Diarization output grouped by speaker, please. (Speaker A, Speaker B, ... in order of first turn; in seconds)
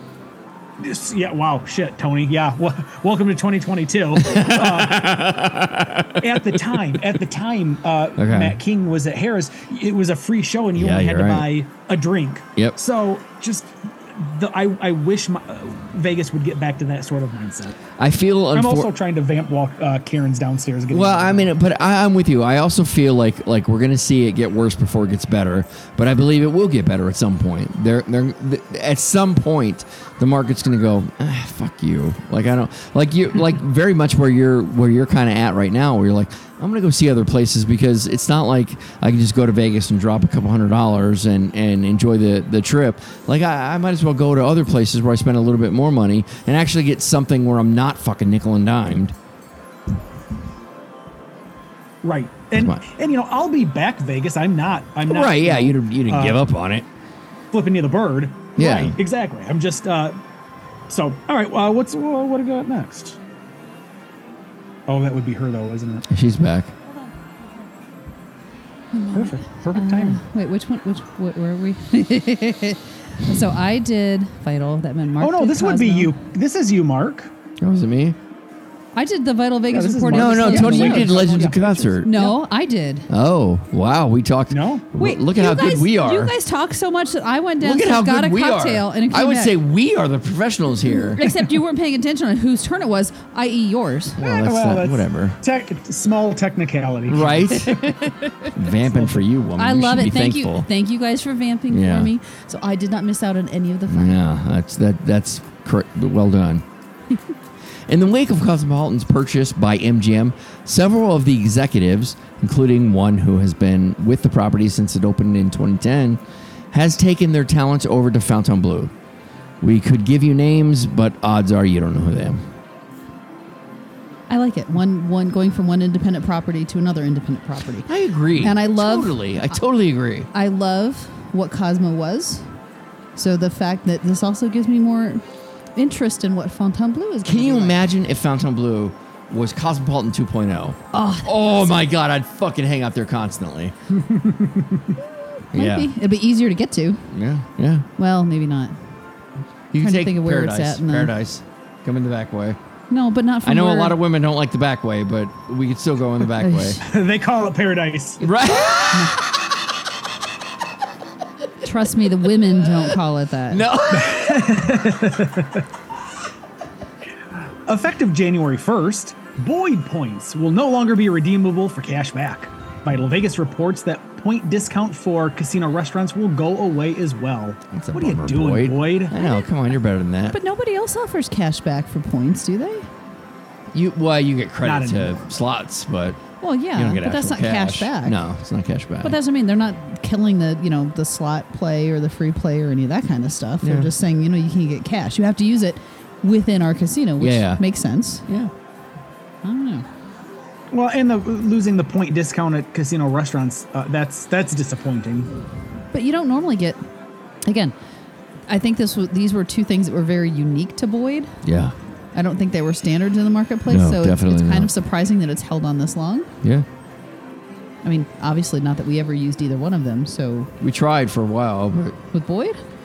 Speaker A: 0.8-5.2, 6.2-17.8, 18.5-21.5, 52.0-56.4, 57.5-60.1, 60.9-63.2, 64.9-66.0, 69.1-70.2, 75.2-77.3, 79.7-82.3, 84.5-84.9, 94.2-97.8, 98.8-99.2, 144.0-144.8, 156.8-158.3, 163.9-165.6, 167.7-179.1, 184.6-185.2, 200.7-205.3
Speaker B: 4.2-6.5, 8.2-8.6, 10.7-11.5, 18.0-18.9, 20.9-49.1, 52.5-52.8, 55.0-56.9, 58.6-59.0, 66.1-66.7, 77.6-78.2, 80.1-82.3, 83.1-86.3, 87.6-91.2, 94.2-95.4, 97.1-97.9, 98.5-100.7, 101.7-102.1, 103.9-106.6, 107.9-116.2, 116.7-118.9, 119.6-122.4, 127.9-130.3, 137.2-143.7, 145.5-145.9, 147.1-147.9, 149.7-152.6, 153.4-156.8, 158.2-159.3, 163.5-164.8, 177.7-180.4, 183.7-186.2, 186.8-189.2, 193.6-193.9, 197.2-197.6, 211.4-211.7, 213.7-214.7, 220.6-221.9
Speaker C: 68.9-76.1, 79.0-81.5, 82.0-83.1, 85.0-89.5, 91.1-94.2, 97.8-98.5, 99.6-104.2, 124.3-129.6, 130.3-132.4, 133.2-135.2, 135.8-137.8, 140.9-141.7, 145.5-147.1, 148.0-148.8, 149.8-151.1, 152.9-154.0, 156.4-156.8, 158.9-159.2, 161.6-163.6, 179.1-179.5, 180.3-182.9, 186.4-188.2, 189.0-198.2, 199.4-199.9, 205.9-206.8, 207.4-207.7, 208.5-211.4, 212.1-216.3, 217.8-220.5, 222.1-222.6